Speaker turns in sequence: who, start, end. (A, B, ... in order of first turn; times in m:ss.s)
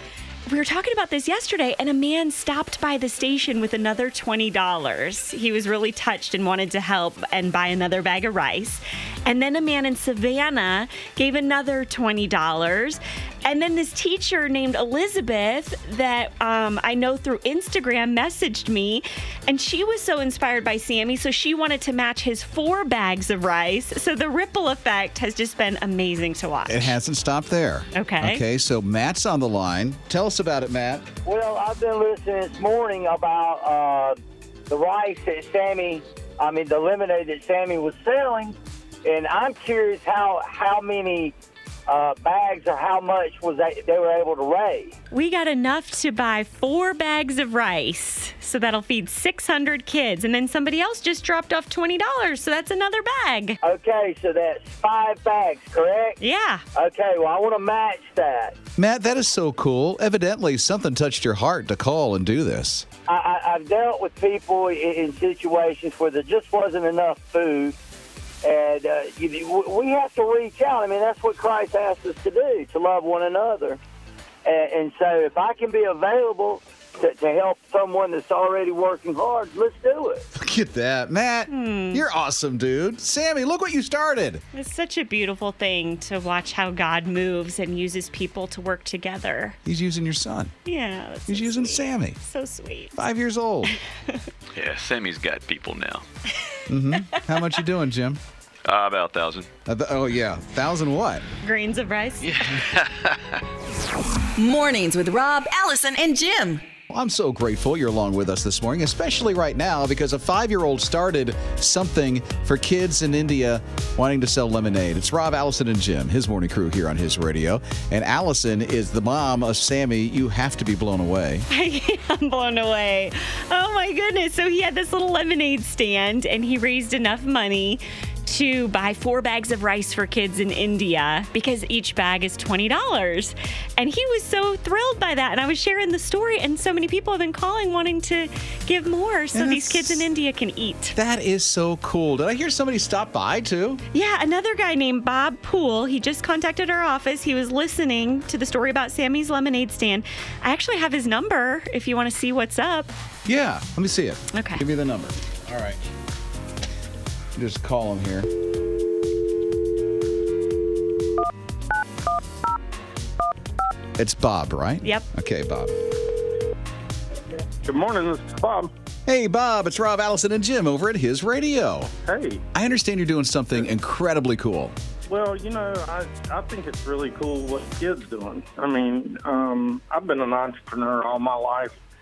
0:00.5-0:27.0 A
0:26.7-0:31.1 B
0:27.9-0:28.4 A
0:31.2-0:34.2 C
0:34.7-0:41.3 C
0:41.9-0:44.9 C
0:45.1-0:53.6 A
0:53.6-0:56.2 C
0:56.2-0:56.6 A
0:56.8-0:58.6 C
0:58.8-1:02.9 B
1:03.1-1:07.8 C
1:08.4-1:13.8 C
1:14.4-1:20.3 C
1:20.3-1:24.4 B
1:21.5-1:22.0 A
1:24.5-1:29.6 A
1:29.6-1:30.5 B
1:30.6-1:32.9 A
1:31.3-1:32.2 B
1:33.0-1:33.7 B
1:34.5-1:36.0 D
1:36.7-1:38.2 B
1:38.6-1:39.5 D
1:39.6-1:41.2 B
1:41.4-1:42.3 A
1:42.2-1:43.4 D
1:44.4-1:46.6 E
1:46.9-2:01.5 B
2:01.5-2:20.9 A
2:19.3-2:20.0 B
2:20.9-2:23.8 B
2:23.9-2:32.9 A
2:33.2-2:35.8 B
2:34.3-2:34.6 A
2:37.3-2:38.3 B
2:44.0-2:45.8 B
2:47.6-2:48.7 F
2:49.0-2:51.9 B
2:52.0-2:52.4 F
2:52.5-2:54.7 B
2:55.1-3:01.8 F